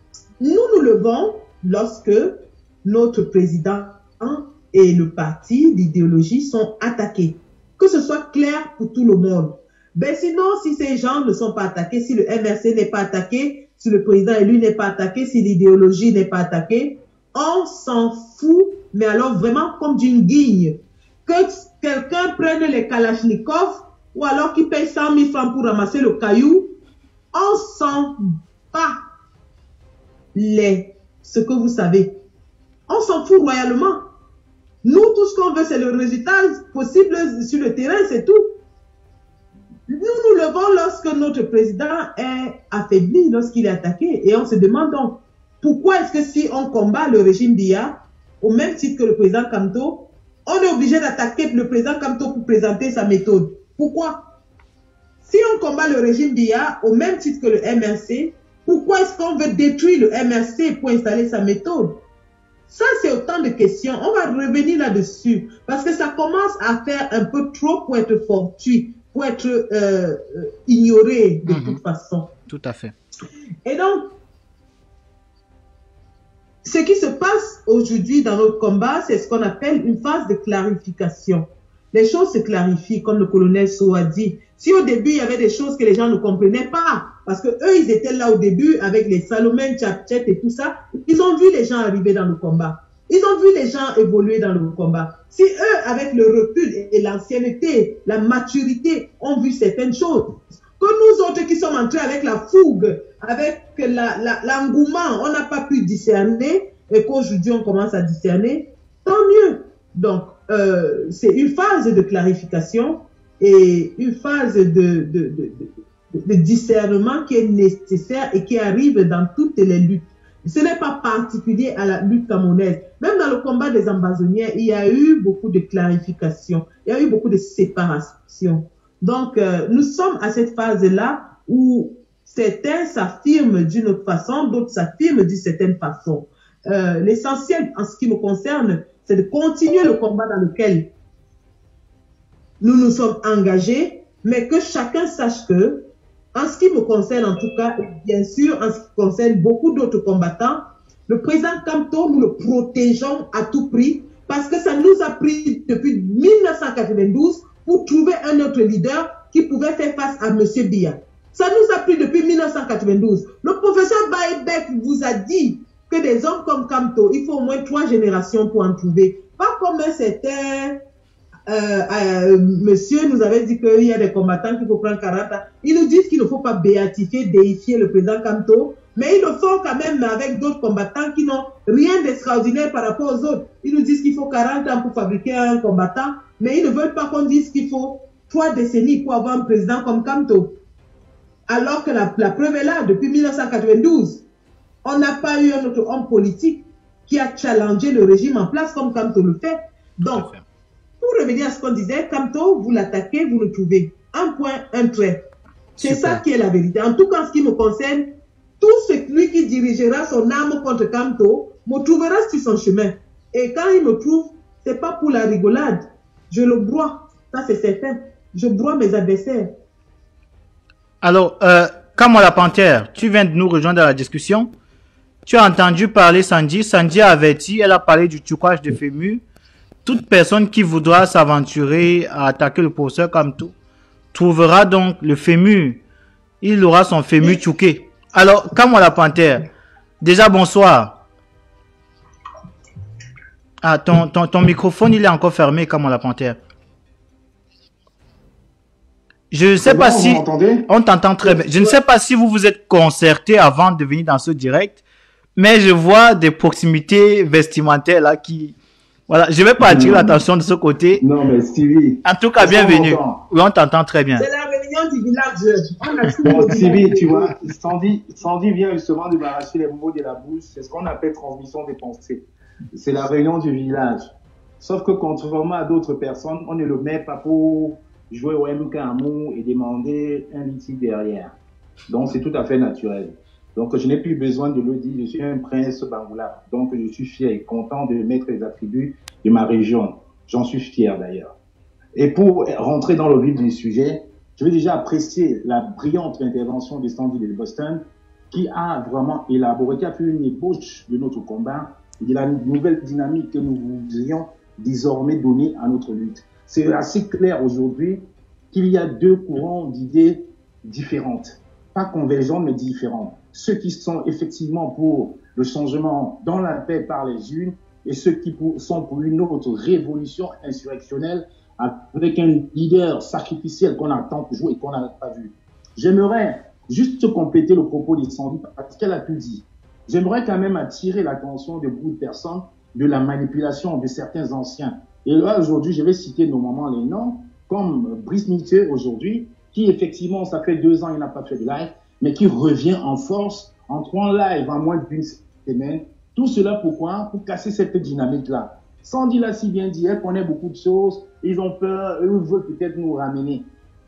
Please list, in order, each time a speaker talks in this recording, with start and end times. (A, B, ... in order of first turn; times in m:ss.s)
0:00.4-0:26.8 A
0:27.3-0:29.0 A
0:30.3-0:32.1 A
0:32.9-0:34.0 A
0:34.8-0:38.5 A
0:39.9-0:54.2 A
0:55.2-1:02.0 A
1:02.7-1:12.3 A
1:11.5-1:11.8 B
1:12.5-1:12.9 B
1:13.6-1:14.1 A
1:16.6-2:20.9 A
2:22.6-2:50.8 A
2:51.5-3:10.6 A
3:11.5-3:14.2 A
3:14.8-3:20.3 A
3:20.1-3:20.4 B
3:21.0-3:25.2 A
3:25.8-3:26.2 B
3:25.8-3:28.1 A
3:28.6-3:39.5 A
3:41.0-3:44.5 B
3:45.2-3:49.2 B
3:49.8-3:53.5 B
3:54.1-3:55.8 B
3:56.4-3:59.4 B
4:00.0-4:01.0 B
4:03.6-4:06.4 B
4:09.3-4:14.8 B
4:09.6-4:10.7 C
4:11.2-4:11.7 C
4:15.4-4:18.6 B
4:19.1-4:21.0 B
4:19.6-4:20.2 C
4:21.0-4:23.2 C
4:22.0-4:24.2 B
4:24.2-4:27.3 A
4:26.2-4:41.4 C
4:41.9-4:51.3 C
4:51.9-5:53.5 C